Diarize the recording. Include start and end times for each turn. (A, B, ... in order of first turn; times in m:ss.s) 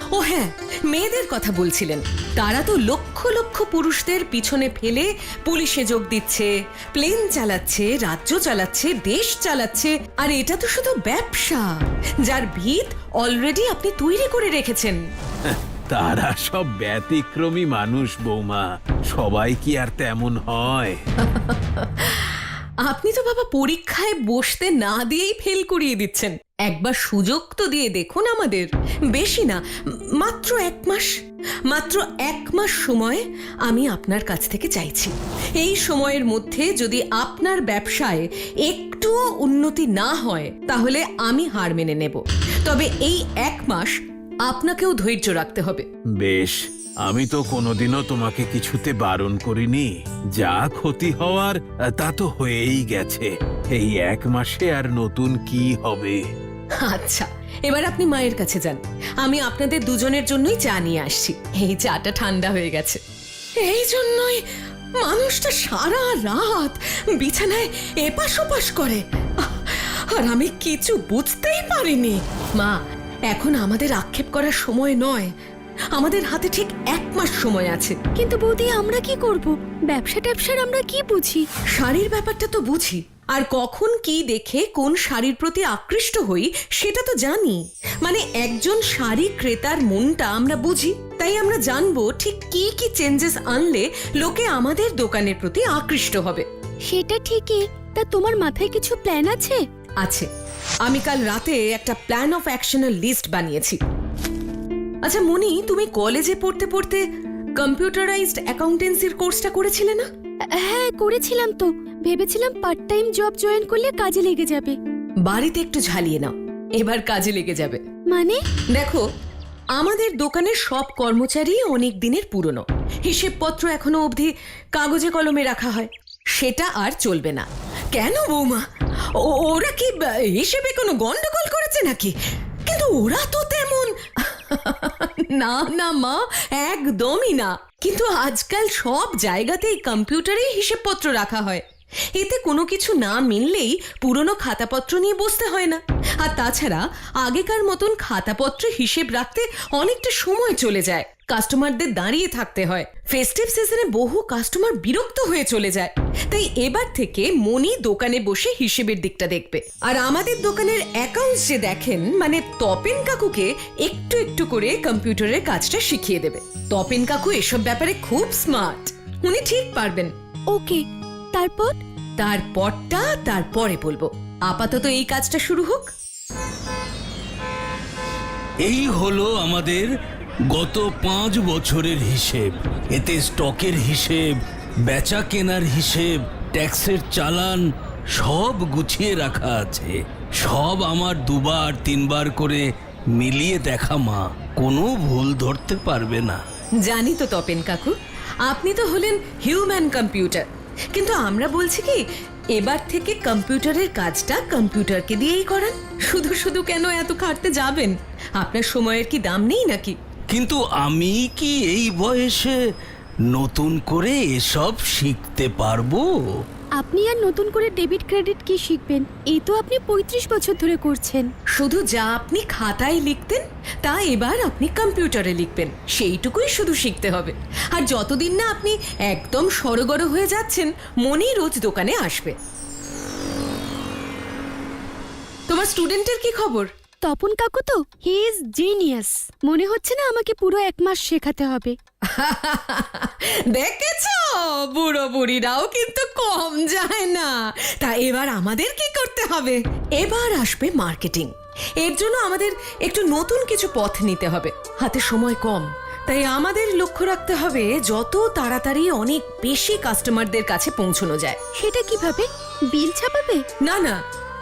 0:00.1-0:11.7 A
0:12.2-0:15.0 A
0:15.4-0:21.0 B
0:21.2-0:29.6 A
0:30.2-0:31.2 A
0:31.7-0:45.9 A
0:46.2-0:56.2 B
0:56.8-1:03.0 A
1:03.6-1:04.4 A
1:05.0-1:12.8 A
1:13.3-1:15.3 A
1:15.9-1:18.0 A
1:18.2-1:21.5 C
1:21.7-1:36.5 A
1:36.9-1:39.6 C
1:40.0-1:40.3 A
1:40.8-1:43.8 A
1:45.0-1:47.1 A
1:47.6-1:50.1 A
1:50.5-1:54.8 C
1:55.2-1:57.8 A
1:58.1-1:58.4 C
1:58.7-1:59.1 A
1:59.8-2:12.1 A
2:12.7-2:21.6 A
2:22.2-2:50.1 A
2:50.5-2:51.8 C
2:52.2-2:55.9 A
2:58.6-2:59.9 D
3:00.5-3:16.4 D
3:16.8-3:18.0 A
3:18.5-3:22.0 A
3:22.6-3:30.0 A
3:30.3-3:32.6 D
3:33.3-3:36.1 D
3:36.8-3:41.3 C
3:41.6-3:52.4 A
3:55.5-3:56.7 A
3:57.0-4:01.8 C
4:02.1-4:21.4 A
4:21.6-4:23.4 C
4:23.6-4:24.0 A